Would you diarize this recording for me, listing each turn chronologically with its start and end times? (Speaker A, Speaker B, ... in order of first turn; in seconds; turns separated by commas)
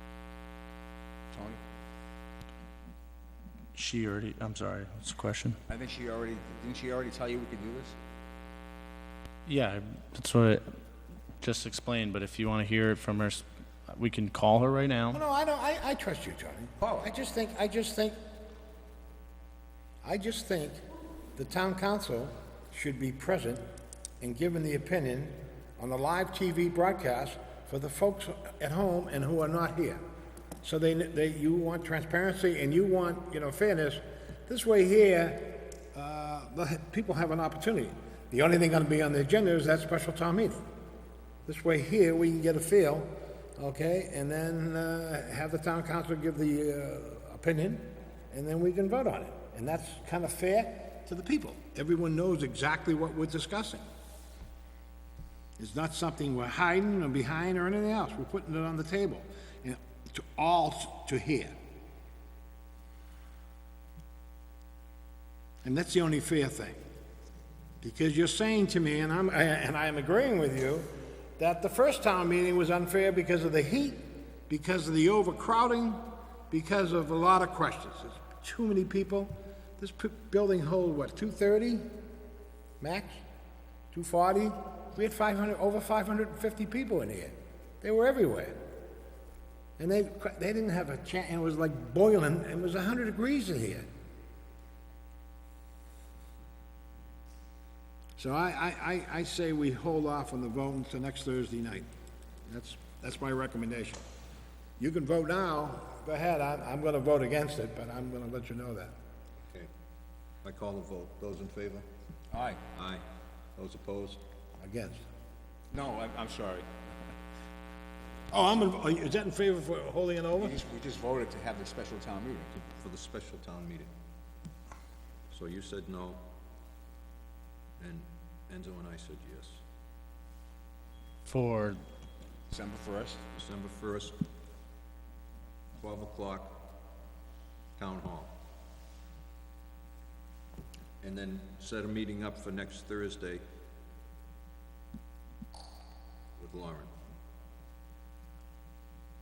Speaker A: 1.3-1.6, Speaker B: 3.8-5.6, Speaker A: 5.7-8.0, Speaker B: 9.5-10.6, Speaker B: 11.4-15.2, Speaker C: 15.1-18.2, Speaker C: 20.0-20.8, Speaker C: 21.4-23.6, Speaker C: 24.2-30.0, Speaker C: 30.6-40.6, Speaker C: 41.5-53.8, Speaker C: 55.6-61.5, Speaker C: 65.6-66.8, Speaker C: 67.8-81.9, Speaker C: 82.8-83.2, Speaker C: 83.9-88.6, Speaker C: 89.8-93.9, Speaker C: 98.2-101.9, Speaker C: 102.5-104.0, Speaker C: 104.8-109.0, Speaker D: 110.4-111.9, Speaker A: 112.3-112.6, Speaker D: 112.7-113.0, Speaker D: 113.6-114.2, Speaker C: 114.6-115.0, Speaker A: 115.7-116.7, Speaker C: 118.3-120.6, Speaker A: 120.4-122.5, Speaker D: 122.5-123.9, Speaker D: 125.3-126.2, Speaker D: 127.8-129.6, Speaker B: 131.3-131.8, Speaker A: 132.5-133.2, Speaker D: 133.3-134.2, Speaker D: 135.8-136.6, Speaker D: 137.8-138.3, Speaker D: 141.0-143.4, Speaker D: 146.4-146.9